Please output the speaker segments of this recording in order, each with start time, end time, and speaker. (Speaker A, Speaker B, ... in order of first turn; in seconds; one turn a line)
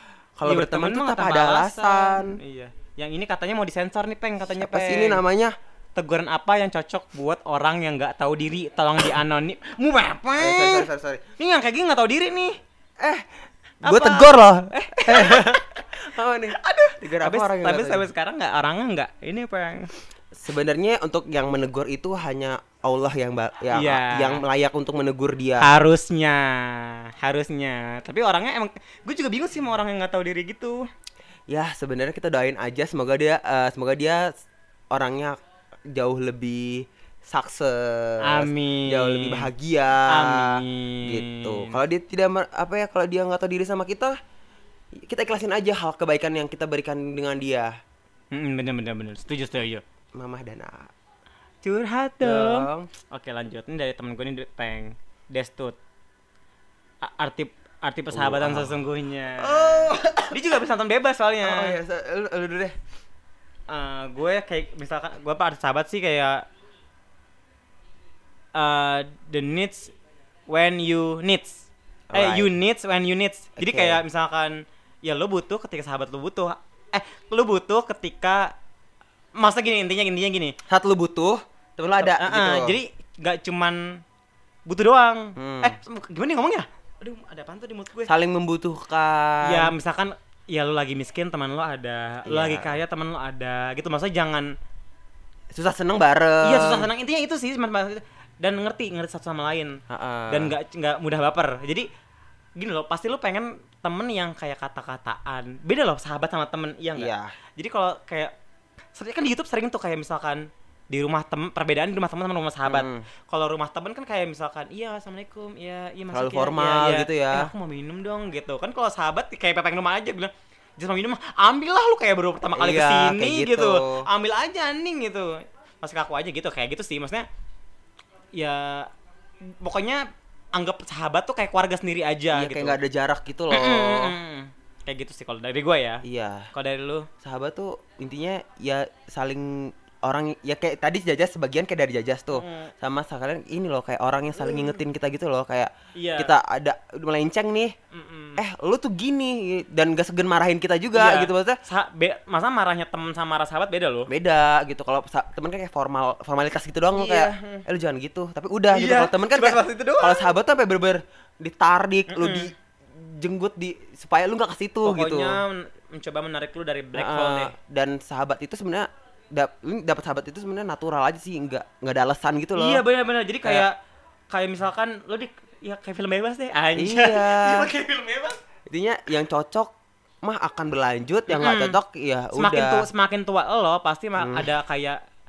Speaker A: 0.4-2.4
Speaker B: 0.4-5.2
Speaker A: 4.5-5.5
Speaker B: 5.9-12.6
Speaker A: 10.4-11.2
Speaker A: 13.0-13.2
Speaker B: 13.8-16.0
Speaker A: 13.8-18.1
Speaker B: 16.6-19.9
Speaker A: 20.3-25.7
Speaker B: 23.7-24.4
Speaker B: 25.6-30.8
Speaker A: 31.5-34.3
Speaker A: 34.9-35.4
Speaker A: 35.9-44.1
Speaker B: 38.2-39.5
Speaker B: 40.1-41.8
Speaker A: 45.0-47.7
Speaker B: 48.3-49.8
Speaker A: 50.1-50.9
Speaker B: 51.6-55.8
Speaker A: 52.2-52.9
Speaker B: 57.0-61.8
Speaker A: 58.1-58.8
Speaker A: 59.4-60.4
Speaker A: 61.4-62.7
Speaker B: 63.7-66.5
Speaker B: 68.5-69.9
Speaker B: 70.5-78.5
Speaker A: 72.1-72.5
Speaker A: 73.6-74.0
Speaker B: 79.3-80.5
Speaker A: 80.7-82.8
Speaker B: 82.0-84.0
Speaker B: 84.7-88.1
Speaker A: 85.3-85.8
Speaker A: 88.0-89.7
Speaker B: 89.4-94.5
Speaker A: 92.3-92.8
Speaker A: 95.5-96.9
Speaker B: 96.4-101.9
Speaker A: 99.9-100.5
Speaker B: 102.5-108.3
Speaker A: 107.0-107.3
Speaker B: 108.9-127.2
Speaker A: 112.6-113.1
Speaker A: 116.1-117.5
Speaker A: 122.5-124.1
Speaker B: 128.3-128.9
Speaker B: 129.4-132.8
Speaker A: 132.3-134.1
Speaker B: 133.5-137.1
Speaker A: 136.0-136.5
Speaker A: 137.2-147.7
Speaker B: 142.3-142.7
Speaker B: 144.4-144.7
Speaker B: 145.9-146.3
Speaker B: 147.9-148.4
Speaker A: 148.4-151.6
Speaker B: 150.9-154.1
Speaker A: 154.1-165.4
Speaker B: 156.9-157.6
Speaker B: 158.7-160.3
Speaker B: 162.1-162.5
Speaker B: 164.8-167.5
Speaker A: 166.9-172.8
Speaker B: 172.6-173.7
Speaker B: 174.3-178.4
Speaker A: 176.8-177.7
Speaker A: 178.7-182.9
Speaker B: 181.3-181.8
Speaker B: 182.3-185.0
Speaker A: 184.2-184.5